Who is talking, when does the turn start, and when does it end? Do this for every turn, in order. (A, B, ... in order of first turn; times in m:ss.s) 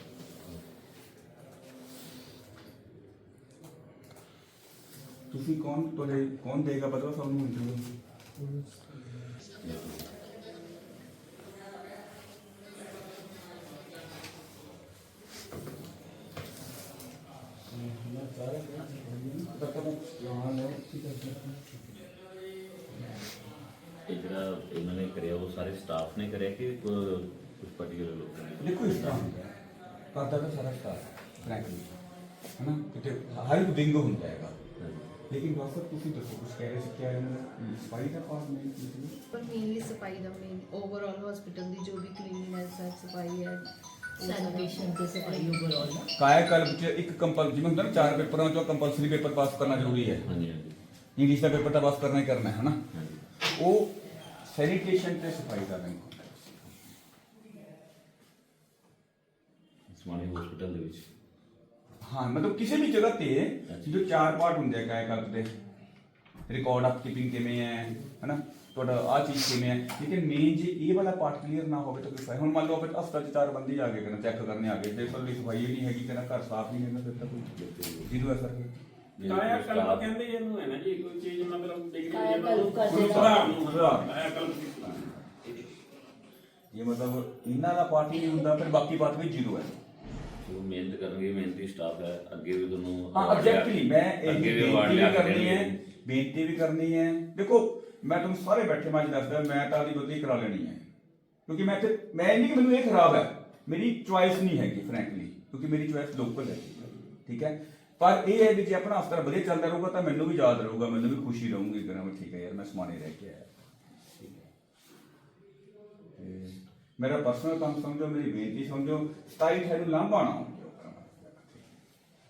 0:05.3-0:07.8 A
0:09.6-0:10.1 B
0:17.7-0:21.8 A
0:24.1-0:29.3 B
0:28.6-0:29.5 A
0:30.1-0:31.9 A
0:32.6-0:34.6 A
0:34.8-0:35.0 B
0:35.3-0:39.2 A
0:39.3-0:45.5 C
0:44.2-0:46.1 D
0:46.2-0:50.2 A
0:50.2-0:50.7 B
0:51.2-0:52.8 A
0:52.9-0:53.2 B
0:53.4-0:53.9 A
0:54.4-0:56.5 A
0:59.9-1:01.0 B
1:02.0-1:05.5 A
1:06.5-1:18.8 A
1:17.6-1:18.1 B
1:19.2-1:20.1 B
1:19.2-1:24.7 E
1:22.1-1:23.4 D
1:22.9-1:25.2 A
1:26.7-1:29.8 A
1:30.4-1:35.7 B
1:33.1-1:40.8 A
1:41.5-1:53.5 A
1:56.2-2:01.6 A